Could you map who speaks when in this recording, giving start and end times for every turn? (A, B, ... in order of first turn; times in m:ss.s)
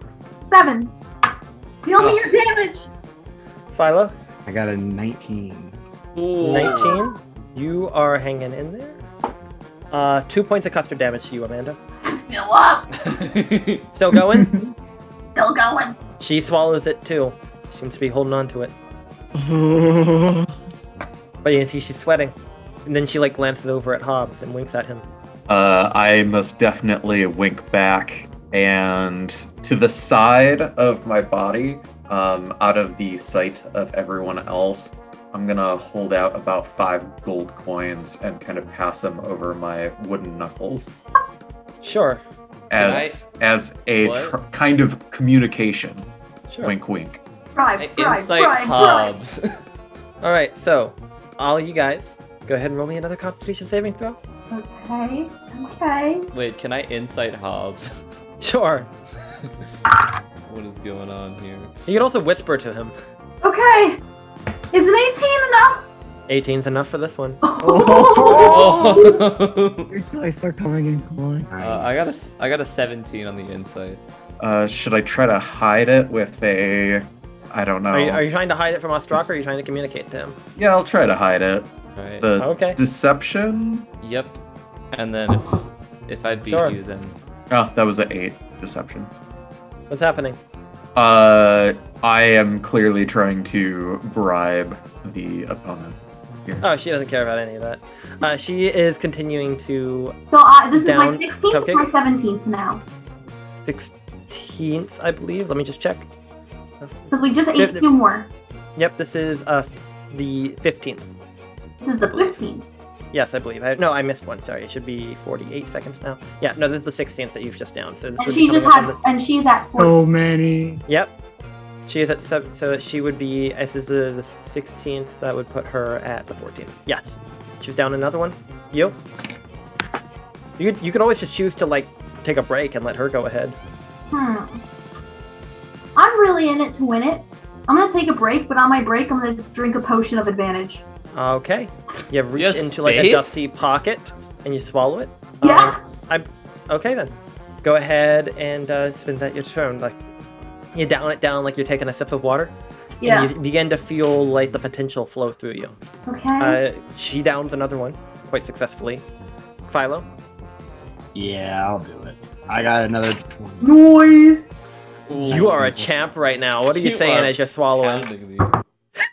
0:00.4-0:00.9 A
0:01.8-0:02.9 A
0:02.0-0:02.2 B
0:03.7-0:04.1 C
0:04.5-0:05.8 D
0:06.2-0:07.0 B
0:06.4-0:09.0 C
0:06.6-0:07.0 A
0:09.9-0:11.8 C
0:12.0-0:12.9 A
0:13.0-0:13.8 B
0:13.9-0:14.5 C
0:14.1-0:14.7 E
0:15.4-0:16.0 A
0:16.2-0:18.7 C
0:19.4-0:20.5 E
0:21.4-0:22.3 C
0:22.9-0:25.0 C
0:25.5-0:40.9 F
0:41.8-0:42.2 C
0:42.7-0:46.1 F
0:42.8-0:43.2 B
0:44.0-0:44.4 B
0:46.6-0:47.2 F
0:47.6-0:49.1 A
0:47.8-0:49.5 B
0:50.2-0:54.2 C
0:54.5-0:56.3 A
0:56.3-0:57.9 B
0:58.4-0:58.9 C
1:00.5-1:01.7 B
1:01.9-1:03.0 C
1:03.4-1:04.0 A
1:04.7-1:05.9 A
1:06.3-1:08.7 C
1:07.4-1:09.2 A
1:07.6-1:09.2 E
1:08.3-1:09.9 B
1:09.9-1:11.5 E
1:11.5-1:12.2 D
1:11.6-1:14.0 B
1:14.4-1:18.2 F
1:17.9-1:20.4 C
1:20.6-1:21.7 F
1:22.0-1:22.2 B
1:22.2-1:23.8 F
1:22.4-1:22.8 C
1:24.0-1:24.4 B
1:24.9-1:27.2 B
1:26.5-1:26.8 C
1:27.5-1:29.1 F
1:29.9-1:30.4 C
1:31.0-1:36.6 F
1:36.6-1:40.2 C
1:40.2-1:42.8 A
1:40.7-1:41.9 C
1:43.7-1:46.1 C
1:46.8-1:47.9 C
1:47.1-1:48.3 A
1:48.8-1:51.1 C
1:51.8-1:52.6 A
1:53.1-1:59.0 C
1:58.2-2:00.0 A
1:59.8-2:00.8 E
2:01.9-2:09.0 C
2:10.6-2:13.6 C
2:14.1-2:14.6 A
2:16.0-2:20.8 A
2:21.1-2:30.0 C
2:22.4-2:23.4 B
2:25.4-2:25.8 A
2:30.8-2:32.5 C
2:33.0-2:33.3 A
2:33.0-2:35.8 C
2:36.1-2:36.6 A
2:36.4-2:39.0 C
2:39.7-2:40.1 C
2:41.1-2:43.7 D
2:43.6-2:44.6 A
2:45.1-2:45.7 B
2:45.2-2:46.2 D
2:45.2-2:48.1 C
2:46.7-2:48.6 B